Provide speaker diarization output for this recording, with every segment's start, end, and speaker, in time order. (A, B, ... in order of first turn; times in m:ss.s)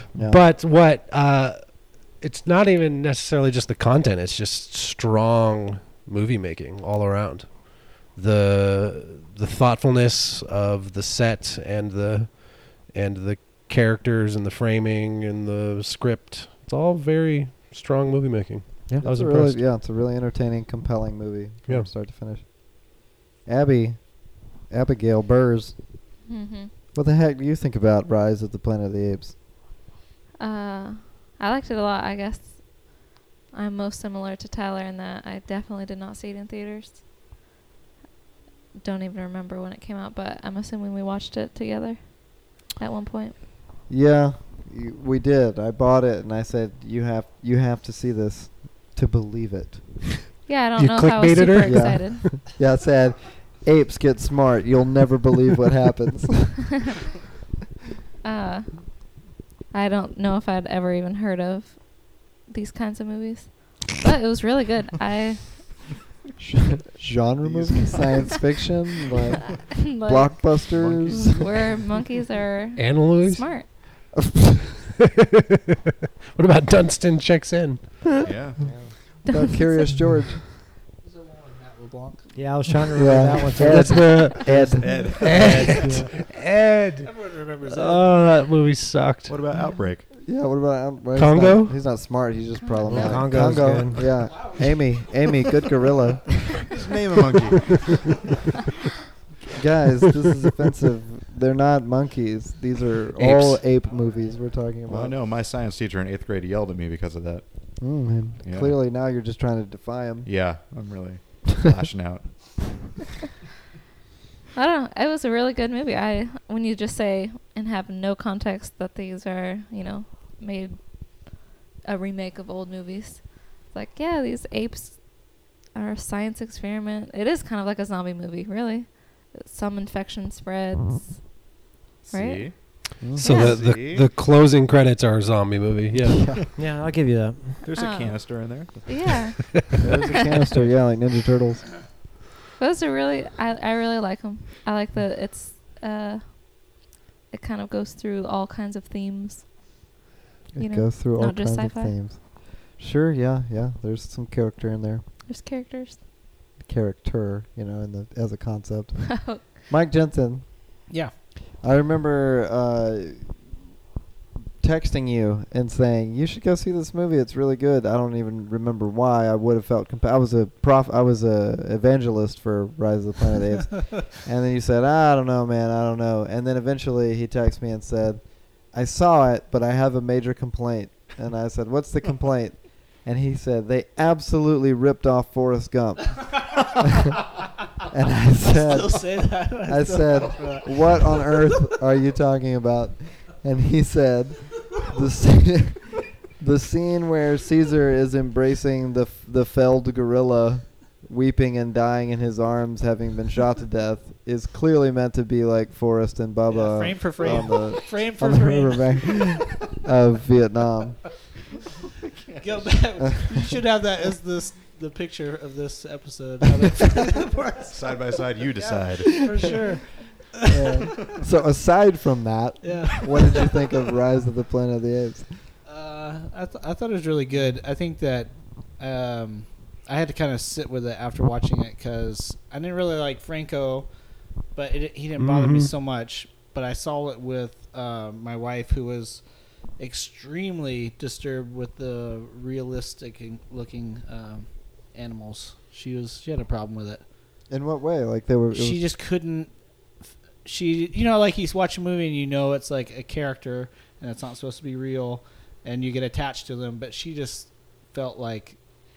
0:00.1-0:00.4 A
0:00.2-0:19.6 B
0:19.0-0:25.8 A
0:26.3-0:26.7 C
0:26.9-0:29.4 A
0:30.4-0:37.0 C
0:38.8-0:43.3 C
0:43.9-0:50.0 A
0:50.4-0:52.2 C
0:50.8-0:52.2 B
0:51.6-0:56.7 A
0:58.2-0:59.2 C
0:59.7-1:05.9 C
1:06.4-1:11.4 A
1:07.4-1:08.4 D
1:09.7-1:10.6 C
1:10.7-1:11.7 D
1:11.3-1:13.7 C
1:12.8-1:13.8 B
1:16.3-1:18.2 B
1:18.2-1:18.6 D
1:19.2-1:19.9 C
1:19.3-1:20.4 A
1:21.0-1:22.4 E
1:22.3-1:26.1 F
1:23.0-1:25.1 A
1:23.6-1:27.1 B
1:24.5-1:26.0 D
1:27.0-1:28.2 E
1:27.6-1:29.4 B
1:29.3-1:30.1 D
1:30.2-1:36.7 A
1:31.2-1:31.8 B
1:32.9-1:34.1 F
1:36.7-1:38.1 D
1:39.5-1:45.1 A
1:43.2-1:43.6 B
1:44.9-1:47.4 D
1:47.8-1:50.3 A
1:48.4-1:48.8 D
1:50.2-1:52.8 D
1:54.5-2:00.8 C
2:01.8-2:05.2 C
2:05.7-2:11.4 C
2:12.0-2:12.5 D
2:12.1-2:13.6 C
2:13.0-2:13.2 A
2:13.2-2:16.3 B
2:13.2-2:14.1 D
2:16.1-2:16.4 A
2:16.6-2:17.6 F
2:17.6-2:19.3 D
2:17.8-2:19.7 C
2:19.8-2:21.7 A
2:22.6-2:29.8 C
2:30.5-2:35.0 A
2:30.6-2:32.0 C
2:35.2-2:36.0 C
2:36.6-2:40.5 A
2:39.2-2:39.5 C
2:41.6-2:43.4 A
2:44.6-3:07.1 A
3:07.9-3:31.0 A
3:08.4-3:11.6 E
3:26.5-3:29.5 E
3:32.2-3:32.7 D
3:32.4-3:40.9 E
3:37.7-3:39.6 D
3:40.5-3:45.3 A
3:42.6-3:43.6 E
3:45.6-3:53.9 E
3:54.5-3:59.2 E
3:55.2-3:55.7 B
3:59.8-4:07.0 E
4:07.5-4:08.8 A
4:08.5-4:09.5 E
4:10.4-4:18.6 E